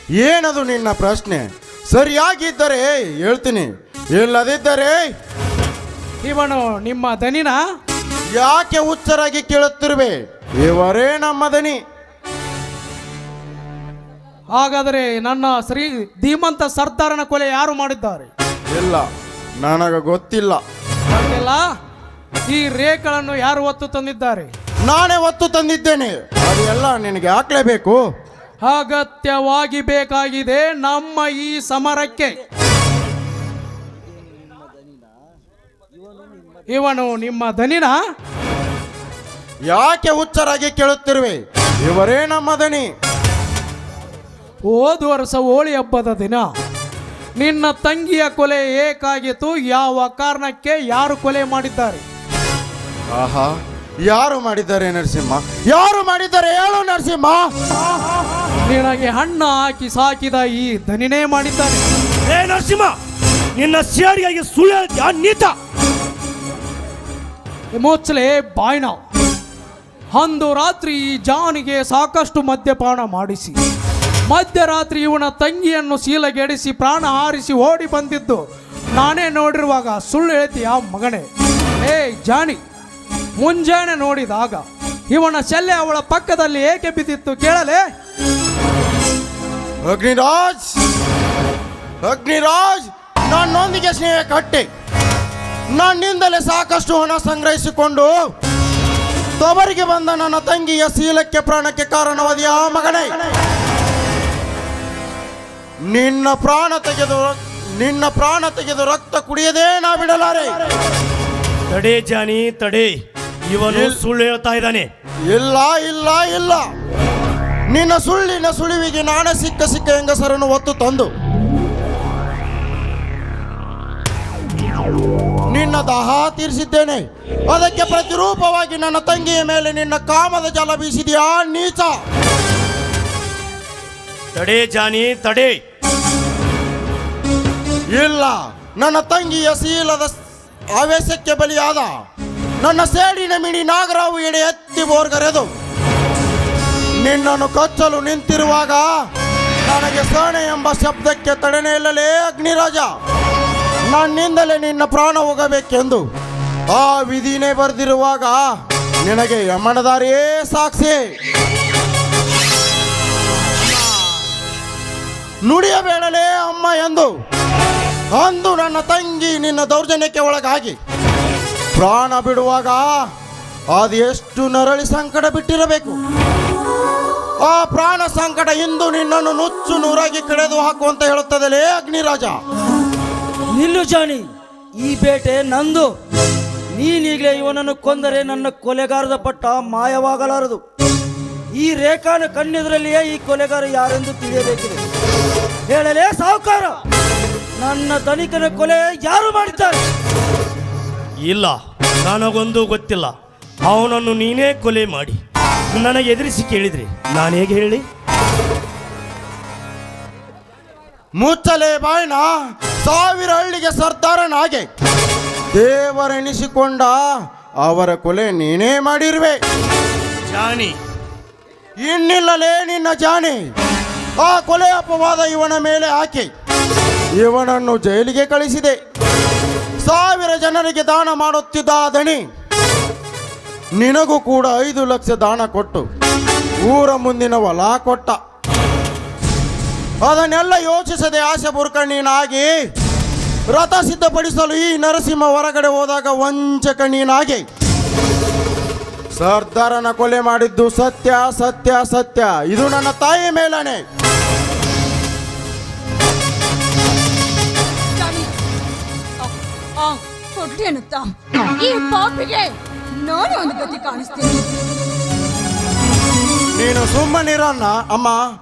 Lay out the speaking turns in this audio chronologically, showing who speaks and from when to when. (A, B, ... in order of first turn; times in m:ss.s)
0:00.2-0:05.1 A
0:06.2-0:07.6 B
0:08.3-0:11.8 A
0:14.6-0:18.3 B
0:18.7-0:19.1 A
0:19.6-0:20.6 A
0:21.1-0:21.6 B
0:22.5-0:24.5 B
0:24.8-0:28.0 A
0:28.6-0:32.4 B
0:36.7-0:38.0 B
0:39.7-0:42.9 A
0:44.7-0:46.5 B
0:47.4-0:52.0 B
0:53.1-0:57.5 A
0:58.6-1:01.8 B
1:02.2-1:03.0 C
1:03.5-1:05.5 C
1:07.7-1:09.0 B
1:10.1-1:13.6 B
1:14.3-1:18.4 B
1:19.0-1:21.3 B
1:21.8-1:22.6 B
1:23.4-1:27.8 B
1:29.8-1:30.8 A
1:32.0-1:34.7 A
1:35.7-1:38.2 A
1:39.4-1:43.3 A
1:45.9-1:50.6 A
1:51.7-1:53.0 C
1:53.5-1:54.9 C
1:53.7-1:54.0 A
1:55.3-1:56.6 A
1:57.7-2:01.1 A
2:05.5-2:12.0 A
2:14.3-2:15.6 C
2:17.9-2:20.1 A
2:20.7-2:21.9 A
2:22.6-2:25.5 A
2:27.0-2:28.9 A
2:29.6-2:32.9 A
2:33.9-2:36.0 A
2:36.7-2:41.0 A
2:45.4-2:47.1 A
2:48.1-2:50.8 A
2:51.7-2:53.0 A
2:53.7-2:56.0 A
2:57.4-3:02.4 A
3:03.5-3:04.2 D
3:04.8-3:05.9 D
3:06.7-3:10.6 D
3:11.5-3:14.8 D
3:15.7-3:16.8 D
3:17.6-3:19.8 D
3:21.2-3:25.2 C
3:25.7-3:27.8 C
3:31.2-3:34.7 A
3:35.5-3:37.0 A
3:37.6-3:39.4 A
3:40.2-3:40.8 C
3:41.8-3:43.4 A
3:44.2-3:46.3 A
3:47.2-3:48.8 A
3:49.8-3:52.2 A
3:53.8-3:55.8 A
3:56.6-3:58.2 A
4:00.0-4:02.5 A
4:03.5-4:07.4 A
4:09.2-4:13.8 A
4:17.9-4:18.3 E
4:19.2-4:24.5 E
4:26.6-4:28.2 A